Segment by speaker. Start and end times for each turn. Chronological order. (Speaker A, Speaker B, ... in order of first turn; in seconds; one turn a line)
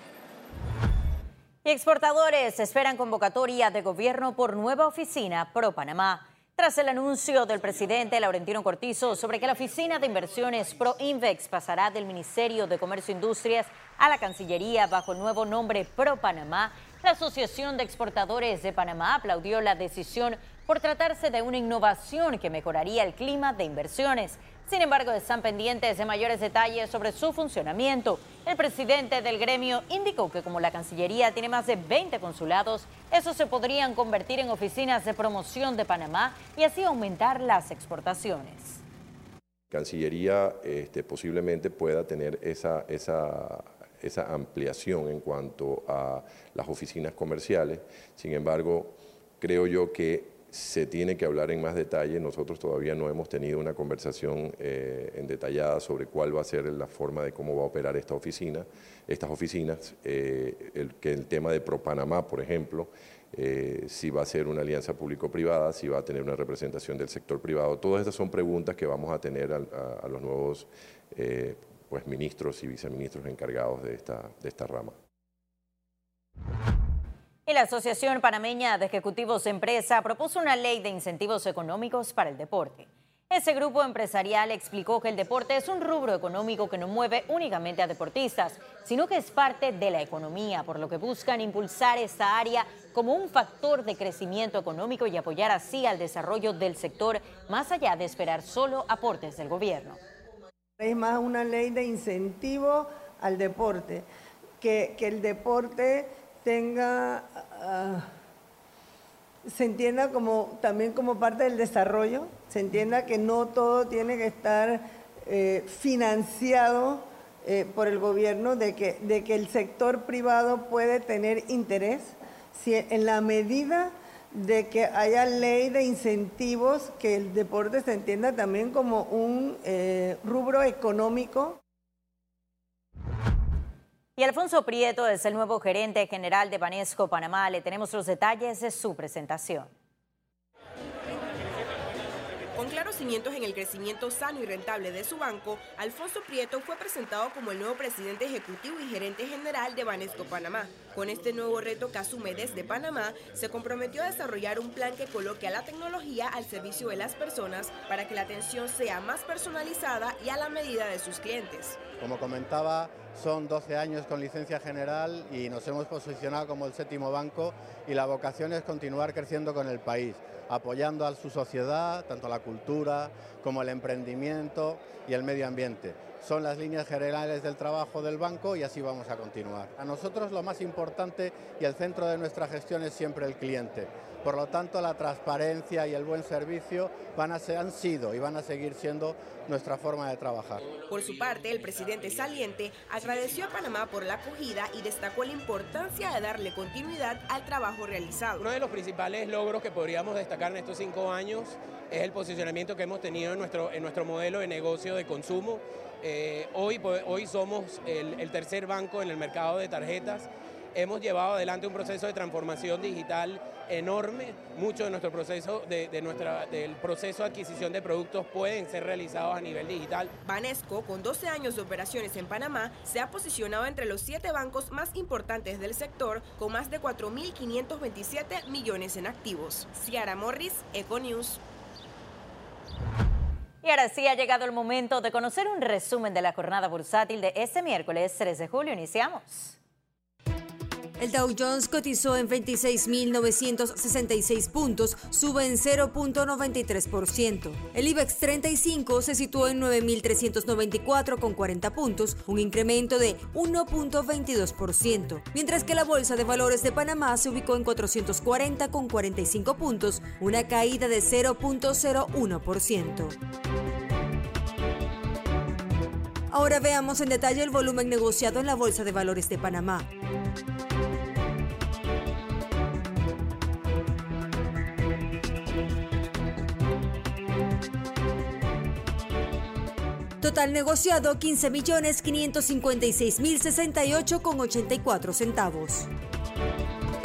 Speaker A: 1.6-38.8
Speaker B: 39.7-74.9
Speaker A: 77.5-100.0
Speaker C: 100.8-104.0
Speaker C: 104.6-108.0
Speaker C: 109.5-131.6
Speaker A: 134.2-139.7
Speaker D: 142.5-161.8
Speaker E: 162.0-190.7
Speaker D: 190.7-198.4
Speaker F: 198.4-220.1
Speaker D: 220.1-231.4
Speaker A: 233.6-239.6
Speaker G: 241.0-263.1
Speaker G: 266.3-269.9
Speaker G: 280.2-285.9